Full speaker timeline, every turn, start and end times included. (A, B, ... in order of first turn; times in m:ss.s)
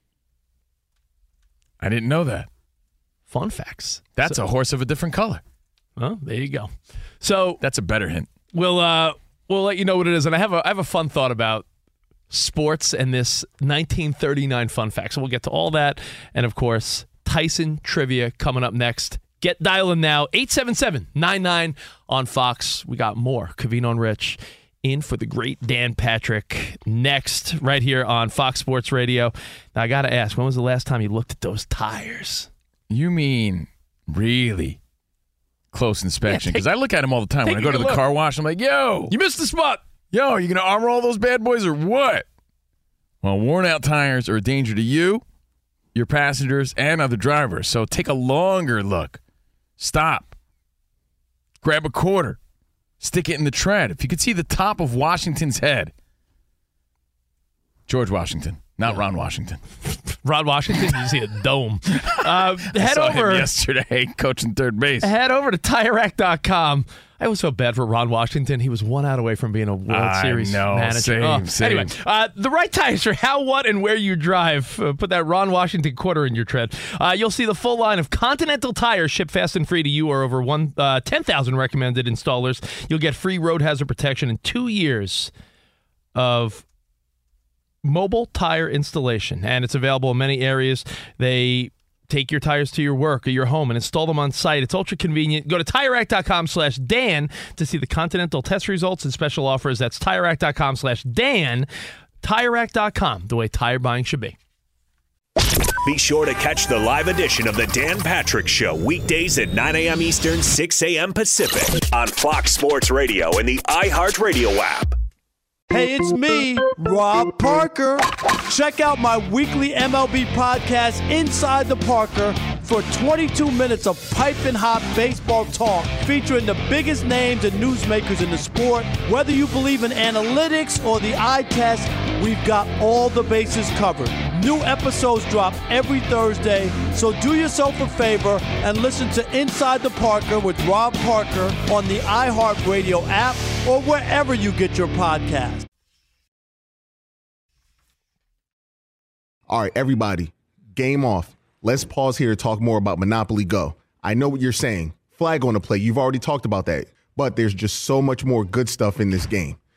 0:01.8-0:02.5 A
0:03.3-0:04.4 B
0:04.2-0:05.4 A
0:06.0-0:07.6 B
0:07.6-0:08.3 A
0:08.5-0:11.6 B
0:12.3-0:32.5 B
0:32.9-0:34.8 A
0:35.7-0:39.1 A
0:36.3-0:36.6 B
0:37.4-0:38.0 B
0:39.1-0:39.8 B
0:40.1-0:42.2 A
0:43.2-0:45.2 A
0:45.9-0:49.2 A
0:49.8-0:50.3 A
0:51.6-0:52.4 A
0:53.0-0:55.9 A
0:57.9-0:59.6 A
1:00.2-1:03.5 B
1:02.0-1:05.1 A
1:05.0-1:25.3 B
1:09.9-1:11.9 A
1:26.1-1:26.6 B
1:27.8-1:41.7 B
1:42.2-1:44.4 B
1:45.8-1:55.0 C
1:55.7-2:25.6 D
2:29.5-2:39.6 E